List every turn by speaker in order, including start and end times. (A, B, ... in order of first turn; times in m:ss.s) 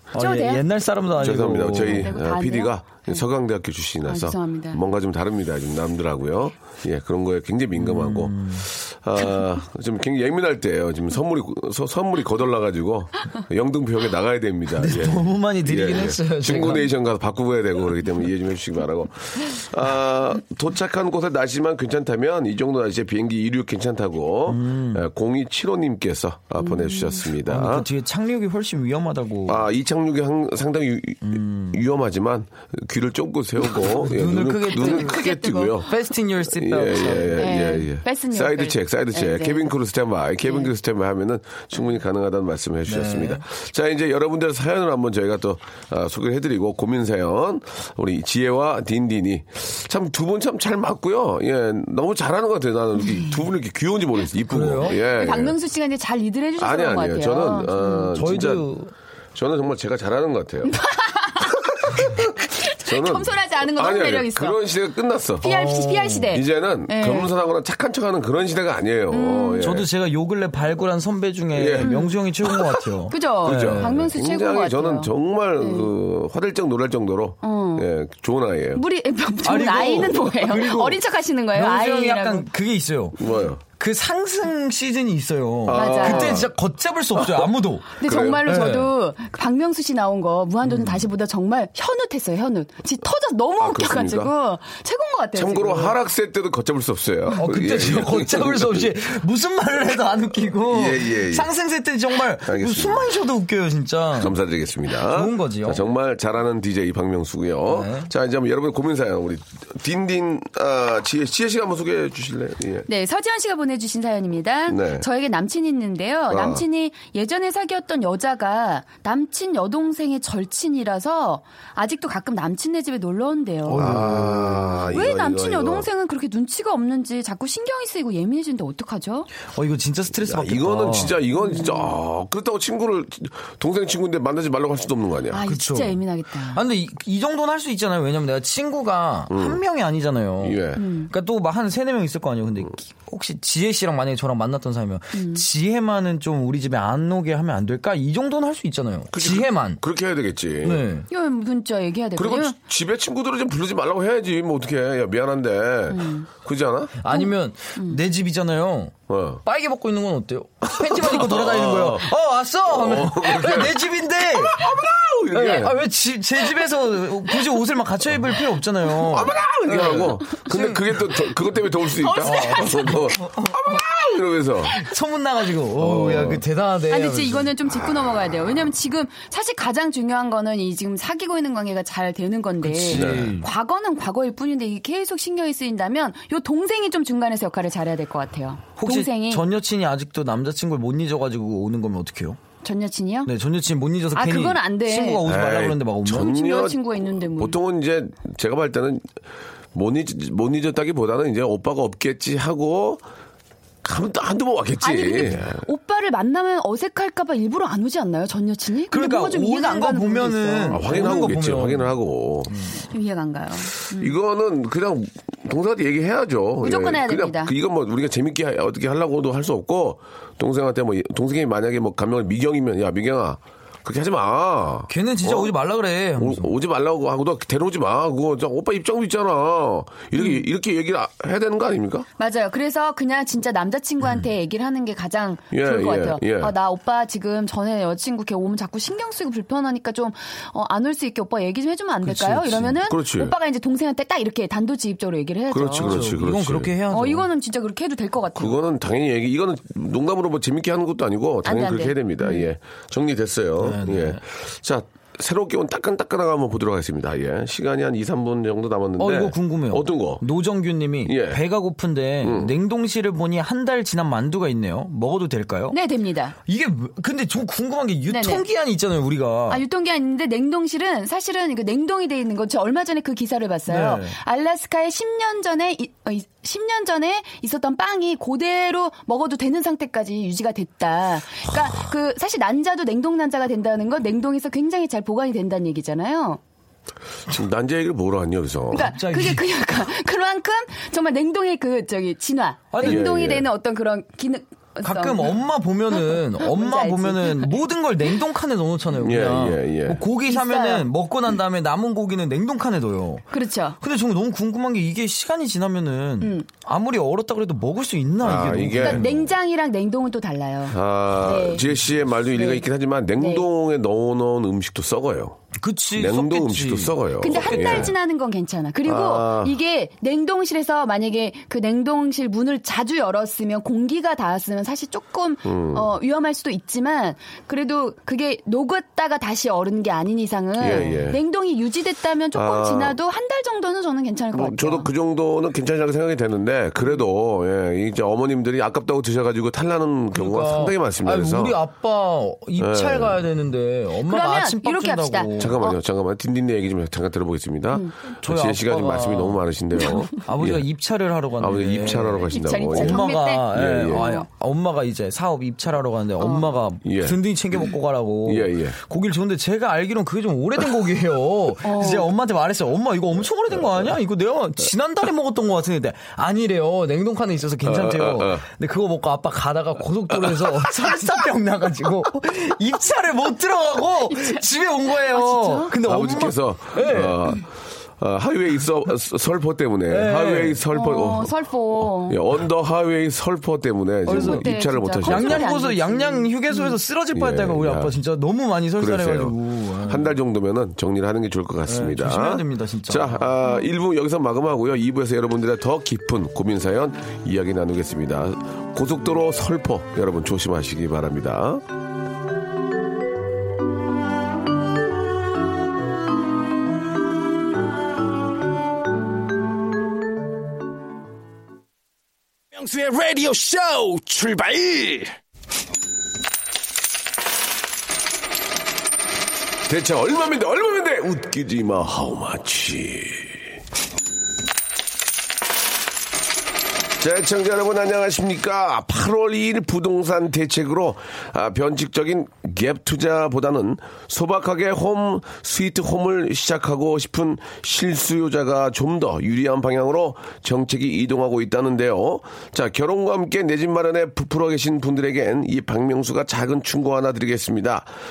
0:00.1-0:02.1 A
0:00.2-0:00.6 B
0:01.2-0:27.9 C
0:01.9-0:03.2 B
0:04.0-0:04.8 B
0:07.8-0:08.7 A
0:14.8-0:16.9 A
0:24.5-0:25.0 A
0:26.6-0:27.2 B
0:27.4-0:29.7 A
0:29.5-0:35.9 C
0:31.2-0:31.8 A
0:33.7-0:35.2 A
0:34.7-0:35.8 B
0:35.8-0:37.6 A
0:36.5-0:55.6 C
0:37.4-0:39.7 B
0:42.9-0:43.4 A
0:54.5-0:55.0 A
0:54.9-0:58.1 B
0:56.6-0:58.6 C
0:58.1-0:58.9 A
0:59.4-1:00.8 C
1:00.6-1:04.6 B
1:01.8-1:02.1 C
1:02.8-1:05.6 C
1:05.4-1:07.3 B
1:05.5-1:06.3 A
1:06.3-1:09.9 C
1:09.1-1:09.6 B
1:09.6-1:14.1 A
1:11.5-1:11.9 C
1:11.8-1:12.2 B
1:13.1-1:15.9 B
1:13.4-1:18.8 C
1:17.4-1:17.9 B
1:18.8-1:22.5 B
1:19.4-1:21.0 A
1:21.5-1:23.2 A
1:23.2-1:23.6 C
1:23.8-1:28.0 A
1:25.7-1:26.5 C
1:25.7-1:26.4 B
1:27.2-1:27.5 C
1:28.0-1:36.0 B
1:28.0-1:28.4 C
1:28.5-1:28.9 A
1:30.7-1:31.0 A
1:33.6-1:34.3 C
1:35.4-1:38.9 C
1:37.3-1:44.4 A
1:40.7-1:41.5 C
1:42.4-1:43.2 C
1:44.2-1:52.9 C
1:45.0-1:45.8 A
1:47.7-1:48.1 A
1:52.9-2:03.9 B
1:54.7-1:55.1 C
1:56.3-1:56.6 C
2:03.7-2:04.8 A
2:03.8-2:05.9 C
2:04.7-2:09.3 B
2:09.5-2:11.2 A
2:10.2-2:15.4 C
2:11.4-2:11.9 B
2:15.3-2:16.6 B
2:15.4-2:16.0 A
2:16.5-2:29.8 A
2:19.3-2:19.6 C
2:20.4-2:20.8 C
2:20.8-2:21.1 B
2:25.1-2:25.4 B
2:29.1-2:30.9 C
2:30.6-2:31.1 A
2:31.1-2:32.6 B
2:32.2-2:37.0 C
2:35.9-2:36.3 B
2:37.0-2:44.8 A
2:37.1-2:38.0 B
2:39.1-2:39.4 C
2:40.7-2:42.1 C
2:42.7-2:45.8 C
2:45.3-2:51.0 A
2:49.0-2:54.8 C
2:52.0-2:53.0 B
2:52.2-2:53.8 A
2:54.7-2:57.5 A
2:55.8-2:56.4 C
2:56.9-3:09.4 B
3:02.6-3:03.5 A
3:02.9-3:03.4 C
3:08.8-3:12.4 A
3:12.6-3:13.3 B
3:13.3-3:16.4 A
3:14.1-3:15.2 B
3:15.2-3:19.0 C
3:16.2-3:17.6 B
3:19.7-3:23.0 C
3:23.8-3:25.6 C
3:24.8-3:30.8 B
3:28.9-3:32.0 A
3:30.7-3:32.5 C
3:32.8-3:34.2 B
3:33.9-3:45.5 C
3:36.6-3:37.5 B
3:44.9-3:46.5 A
3:46.2-3:52.1 C
3:52.2-4:06.0 B
3:55.5-3:56.5 C
4:02.0-4:02.8 A
4:02.8-4:03.3 C
4:05.5-4:06.7 C
4:05.8-4:07.3 A
4:06.9-4:08.6 B
4:08.4-4:20.2 C
4:11.4-4:12.5 B
4:13.6-4:14.2 A
4:19.0-4:25.8 A
4:21.1-4:21.4 C
4:22.2-4:22.5 C
4:25.7-4:26.4 B
4:26.5-4:29.6 A
4:28.1-4:28.4 B
4:29.5-4:46.4 B
4:33.7-4:34.2 A
4:47.3-4:48.9 C
4:48.7-4:55.3 B
4:48.8-4:49.4 A
4:52.7-4:53.1 A
4:52.8-4:53.5 C
4:54.8-5:03.3 A
4:55.9-4:57.5 B
4:59.0-5:00.0 C
5:00.3-5:00.9 B
5:03.3-5:03.8 B
5:03.8-5:09.2 A
5:06.2-5:06.5 B
5:08.2-5:09.0 C
5:08.8-5:11.7 B
5:10.7-5:15.4 C
5:12.3-5:12.6 B
5:13.2-5:13.4 B
5:15.6-5:17.9 A
5:16.0-5:17.9 C
5:17.2-5:34.9 B
5:18.9-5:19.6 C
5:25.5-5:25.9 C
5:30.6-5:31.2 C
5:32.4-5:33.0 C
5:34.3-5:41.6 C
5:40.1-5:45.6 A
5:42.6-5:43.2 C
5:44.0-5:45.8 B
5:45.4-5:50.6 C
5:48.2-5:49.4 A
5:50.2-6:17.4 A
5:51.4-5:54.1 C
5:52.3-5:54.3 B
5:56.2-5:56.5 B
5:56.8-5:57.7 C
5:58.2-5:58.8 C
6:01.6-6:02.1 B
6:07.6-6:08.4 C
6:14.1-6:15.7 B
6:15.8-6:17.5 C
6:18.0-6:21.3 C
6:19.9-6:20.6 A
6:20.7-6:22.2 B
6:22.1-6:25.5 C
6:24.1-6:24.5 A
6:24.1-6:26.8 B
6:25.0-6:30.2 A
6:27.1-6:27.9 C
6:28.8-6:41.6 C
6:31.7-6:33.3 A
6:52.5-6:55.2 D
6:59.7-7:03.5 C
7:07.0-7:27.9 C